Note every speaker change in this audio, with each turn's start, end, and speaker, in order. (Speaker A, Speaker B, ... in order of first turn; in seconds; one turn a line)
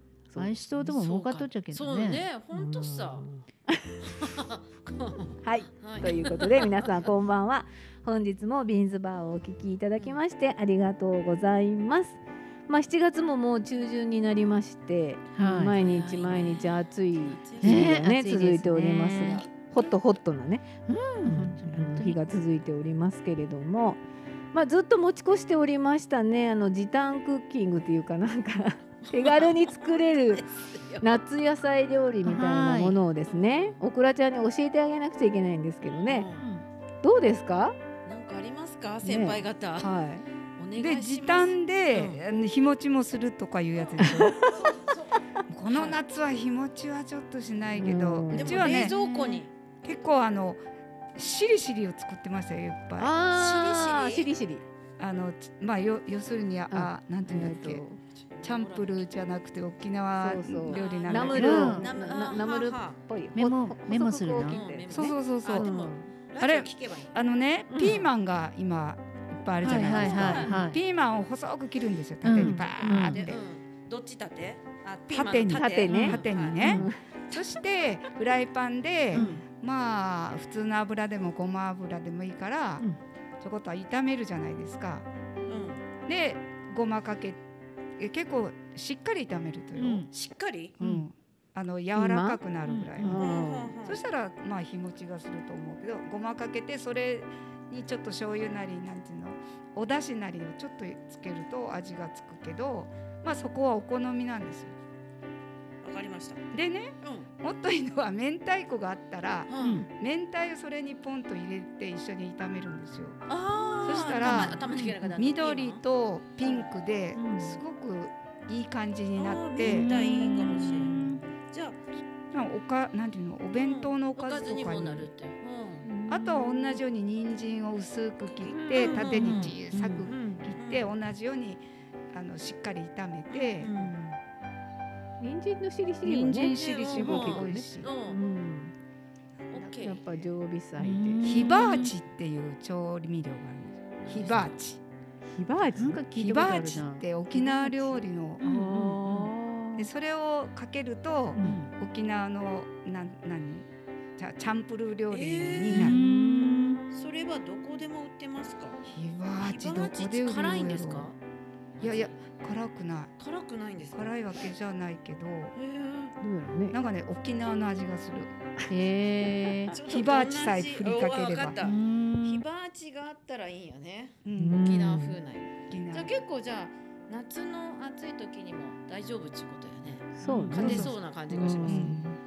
Speaker A: 0.3-0.6
Speaker B: 0.4-2.2
Speaker C: 0.8-3.3
Speaker A: 2.5-4.3
Speaker C: 4.2-6.9
Speaker A: 5.4-20.7
Speaker B: 15.3-15.8
Speaker C: 15.8-17.9
Speaker B: 17.6-19.5
Speaker B: 20.9-22.2
Speaker A: 21.2-24.0
Speaker A: 24.5-30.5
Speaker C: 29.1-31.2
Speaker A: 31.0-36.3
Speaker B: 32.2-33.0
Speaker C: 33.3-33.8
Speaker C: 35.9-36.5
Speaker B: 36.4-36.6
Speaker A: 37.0-37.8
Speaker C: 38.1-39.9
Speaker A: 39.0-40.2
Speaker C: 40.6-42.2
Speaker D: 40.8-44.5
Speaker C: 43.8-46.0
Speaker A: 44.0-44.7
Speaker D: 45.5-49.0
Speaker A: 47.7-48.7
Speaker C: 48.3-49.5
Speaker B: 48.7-49.4
Speaker D: 49.8-50.6
Speaker D: 51.1-53.1
Speaker A: 53.0-54.6
Speaker C: 53.3-54.3
Speaker D: 55.0-57.8
Speaker A: 56.7-58.0
Speaker C: 58.1-59.1
Speaker D: 58.4-61.9
Speaker A: 60.2-66.1
Speaker C: 60.7-63.0
Speaker B: 61.3-61.9
Speaker B: 63.4-64.6
Speaker C: 64.4-67.2
Speaker D: 64.9-65.7
Speaker D: 66.4-73.4
Speaker A: 67.7-68.1
Speaker B: 69.6-70.8
Speaker C: 69.6-70.6
Speaker B: 72.2-73.3
Speaker A: 72.3-72.7
Speaker C: 72.8-76.7
Speaker D: 74.8-82.9
Speaker A: 75.5-77.0
Speaker B: 76.6-76.9
Speaker B: 79.1-79.4
Speaker A: 79.2-79.4
Speaker D: 83.4-85.1
Speaker C: 85.5-85.8
Speaker D: 86.0-87.4
Speaker D: 88.0-90.1
Speaker B: 89.8-90.1
Speaker C: 90.1-90.8
Speaker D: 90.8-93.2
Speaker B: 90.8-91.0
Speaker A: 91.9-92.4
Speaker B: 92.6-93.2
Speaker A: 93.0-93.7
Speaker C: 93.1-94.0
Speaker D: 93.8-104.8
Speaker C: 105.8-106.4
Speaker D: 106.5-113.2
Speaker C: 107.0-107.3
Speaker C: 109.5-109.8
Speaker C: 113.3-115.8
Speaker D: 113.8-120.3
Speaker B: 114.2-114.6
Speaker C: 116.4-116.7
Speaker A: 117.1-117.6
Speaker C: 119.1-121.8
Speaker B: 119.6-121.2
Speaker D: 122.3-125.1
Speaker C: 123.6-125.9
Speaker A: 125.8-126.8
Speaker D: 126.1-133.7
Speaker A: 128.5-130.5
Speaker C: 128.7-129.6
Speaker C: 130.6-130.9
Speaker C: 133.3-133.9
Speaker A: 133.6-134.2
Speaker A: 135.2-138.7
Speaker D: 136.0-137.9
Speaker C: 136.5-138.2
Speaker D: 139.4-140.0
Speaker C: 139.5-140.0
Speaker A: 139.8-141.3
Speaker B: 140.8-141.9
Speaker D: 141.2-144.8
Speaker C: 144.0-144.6
Speaker A: 145.3-146.0
Speaker B: 145.7-149.9
Speaker D: 146.1-148.4
Speaker A: 147.4-147.8
Speaker A: 148.4-149.8
Speaker D: 149.8-156.0
Speaker B: 151.4-151.7
Speaker C: 155.1-156.0
Speaker B: 155.7-156.8
Speaker A: 156.0-156.7
Speaker C: 156.9-158.8
Speaker D: 158.9-161.1
Speaker C: 159.4-161.2
Speaker C: 161.8-162.2
Speaker D: 161.8-163.1
Speaker C: 163.2-164.2
Speaker D: 163.9-165.5
Speaker C: 165.6-166.1
Speaker A: 166.2-166.8
Speaker D: 166.7-168.3
Speaker B: 168.7-169.8
Speaker C: 169.7-181.9
Speaker D: 169.8-171.6
Speaker B: 171.6-172.4
Speaker D: 174.2-174.6
Speaker A: 174.3-175.2
Speaker D: 175.7-176.2
Speaker A: 180.1-182.2
Speaker D: 180.3-180.9
Speaker D: 181.6-182.0